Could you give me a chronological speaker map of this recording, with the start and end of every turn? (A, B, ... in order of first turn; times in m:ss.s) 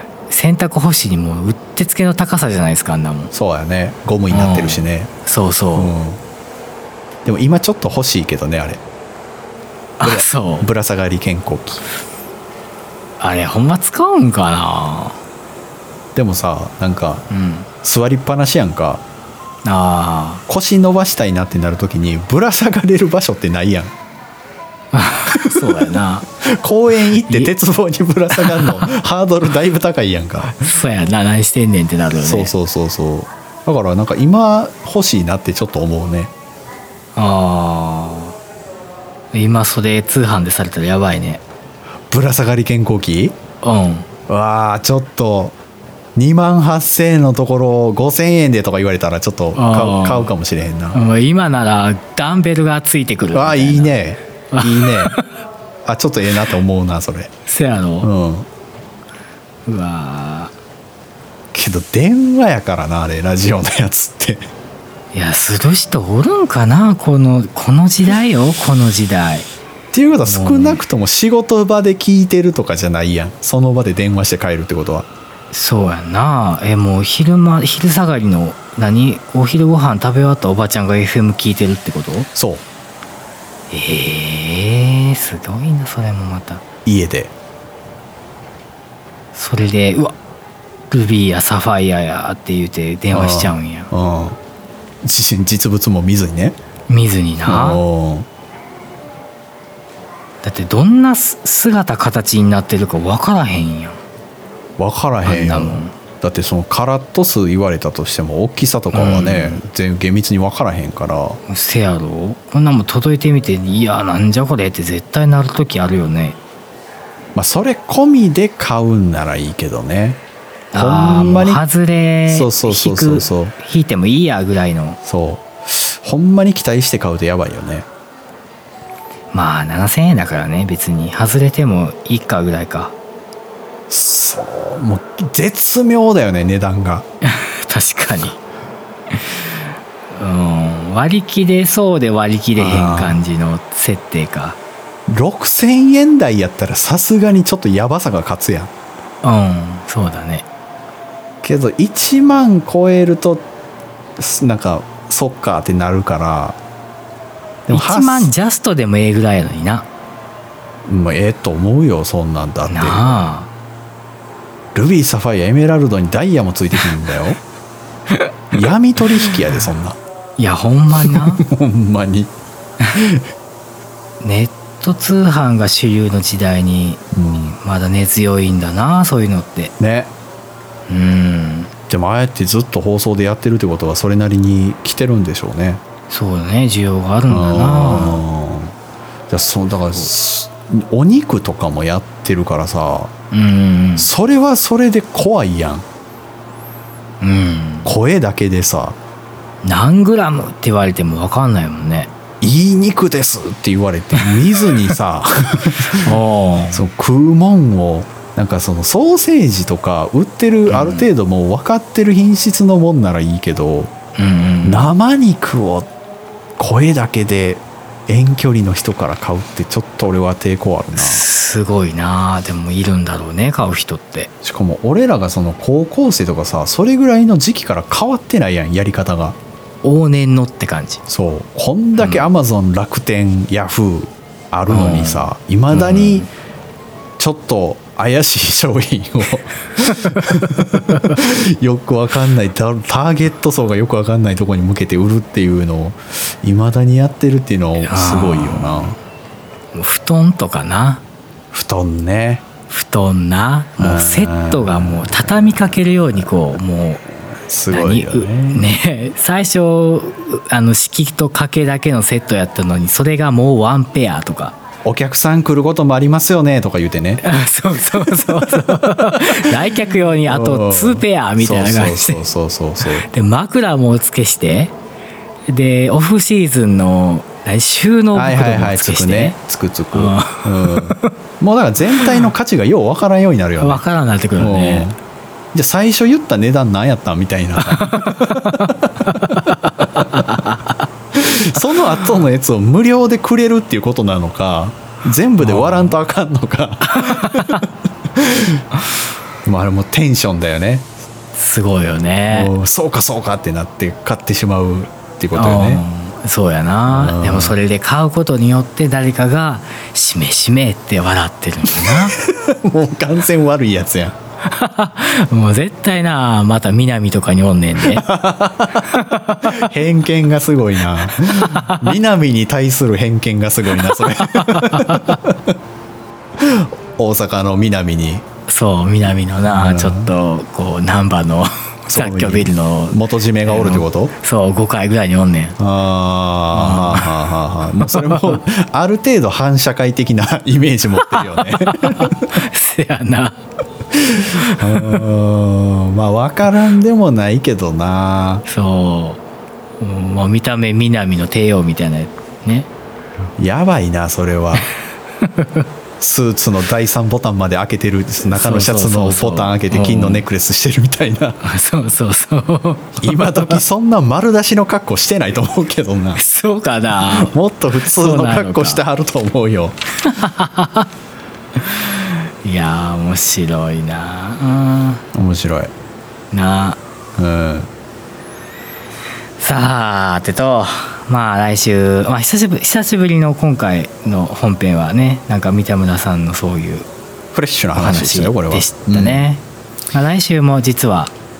0:00.3-0:03.3 A
0:03.3-0:05.1 B
0:04.3-0:05.9 A
0:05.8-0:06.2 B
0:07.2-0:08.8 B
0:10.0-0:10.7 A
0:10.0-0:11.8 B
0:13.2-0:15.2 A
0:16.1-0:17.2 B
0:17.3-0:17.7 A
0:17.8-0:19.0 B
0:19.6-0:20.4 A
0:20.5-0:23.9 B
0:24.9-0:26.2 A
0:25.3-0:30.7 B
0:28.3-0:28.9 A
0:30.4-0:32.5 A
0:32.2-0:36.3 B
0:37.1-0:38.4 A
0:39.3-0:41.4 A
0:42.1-0:43.4 B
0:43.6-0:44.0 A
0:44.3-0:45.5 B
0:46.2-0:51.0 B
0:49.5-0:50.3 A
0:50.9-0:54.0 A
0:53.3-0:55.1 B
0:54.5-0:55.2 A
0:55.8-0:57.3 B
0:57.4-0:58.1 A
0:58.0-0:58.5 B
0:59.6-1:00.5 A
1:01.5-1:04.5 B
1:05.1-1:09.5 A
1:09.9-1:15.1 B
1:10.2-1:10.8 A
1:15.5-1:22.3 A
1:22.3-1:22.6 B
1:23.7-1:26.6 A
1:26.8-1:27.3 B
1:29.3-1:30.1 A
1:30.9-1:33.9 A
1:33.1-1:34.4 B
1:35.0-1:36.6 B
1:36.9-1:37.8 A
1:37.4-1:38.3 B
1:40.4-1:44.0 A
1:44.8-1:51.4 B
1:45.2-1:45.9 A
1:48.9-1:49.6 A
1:51.5-1:56.4 A
1:57.3-2:00.2 B
2:00.7-2:05.0 A
2:00.7-2:01.6 B
2:02.3-2:03.5 B
2:05.0-2:07.9 B
2:09.3-2:12.9 A
2:13.9-2:17.0 B
2:17.2-2:18.4 A
2:19.1-2:19.6 A
2:20.1-2:24.6 A
2:22.6-2:23.2 B
2:25.1-2:28.7 B
2:29.2-2:30.4 A
2:31.4-2:33.4 B
2:34.2-2:36.6 B
2:37.7-2:38.3 B
2:37.7-2:39.8 A
2:40.9-2:43.2 B
2:42.7-2:43.5 A
2:44.7-2:47.4 B
2:48.5-2:50.0 B
2:50.4-2:51.4 A
2:51.0-2:52.3 B
2:52.9-2:53.2 B
2:54.2-2:57.0 A
2:57.1-2:57.6 B
2:57.5-2:59.7 A
2:59.8-3:00.1 B
3:00.9-3:01.7 A
3:01.9-3:05.8 B
3:06.1-3:08.2 A
3:07.3-3:08.7 B
3:09.3-3:13.1 B
3:13.3-3:14.1 A
3:14.0-3:15.8 B
3:17.2-3:17.9 A
3:17.8-3:19.0 B
3:19.6-3:22.1 A
3:22.4-3:26.2 B
3:26.0-3:26.8 A
3:26.7-3:33.9 B
3:30.7-3:31.1 A
3:34.2-3:34.9 A
3:34.6-3:35.9 B
3:36.6-3:41.2 B
3:40.9-3:44.3 A
3:44.4-3:49.4 B
3:49.8-3:51.0 A
3:51.1-3:56.3 B
3:52.0-3:52.3 A
3:54.7-3:56.3 A
3:57.2-4:09.0 B
4:07.8-4:08.9 A
4:09.7-4:11.0 A
4:11.5-4:12.4 B
4:12.7-4:17.0 A
4:13.8-4:15.3 B
4:17.4-4:18.7 B
4:17.7-4:24.6 A
4:24.8-4:27.2 B
4:27.2-4:32.2 A
4:30.2-4:33.1 B
4:32.8-4:34.7 A
4:35.5-4:39.4 A
4:38.1-4:43.8 B
4:39.9-4:41.1 A
4:42.0-4:42.2 A
4:43.6-4:44.9 A
4:44.4-4:45.0 B
4:45.5-4:50.4 B
4:47.6-4:50.7 A
4:51.1-4:58.6 B
4:51.6-4:52.1 A
4:55.4-4:55.9 A
4:56.9-4:57.6 A
4:59.4-5:00.9 B
5:01.3-5:02.5 A
5:02.3-5:05.8 B
5:05.3-5:12.2 A
5:06.9-5:07.6 B
5:11.7-5:14.1 B
5:14.4-5:18.0 A
5:17.8-5:18.9 B
5:18.8-5:19.7 A
5:19.4-5:25.5 B
5:21.0-5:21.9 A
5:23.7-5:25.2 A
5:26.4-5:28.2 B
5:28.5-5:35.6 A
5:29.5-5:30.1 B
5:31.9-5:34.1 B
5:35.6-5:42.4 B
5:36.5-5:37.2 A
5:37.8-5:38.4 A
5:41.0-5:43.4 A
5:43.9-5:48.4 B
5:44.3-5:45.0 A
5:48.4-5:49.2 A
5:49.8-5:52.7 A
5:53.4-5:54.7 B
5:55.2-5:55.6 A
5:56.0-6:01.4 B
5:58.3-6:00.2 A
6:01.4-6:03.6 A
6:03.0-6:06.2 B
6:06.2-6:08.8 A
6:07.0-6:09.8 B
6:10.0-6:10.9 A
6:11.6-6:15.0 A
6:15.1-6:15.7 B
6:16.3-6:16.8 A
6:17.2-6:17.7 B
6:19.4-6:26.9 A
6:27.3-6:29.3 B
6:27.7-6:31.1 A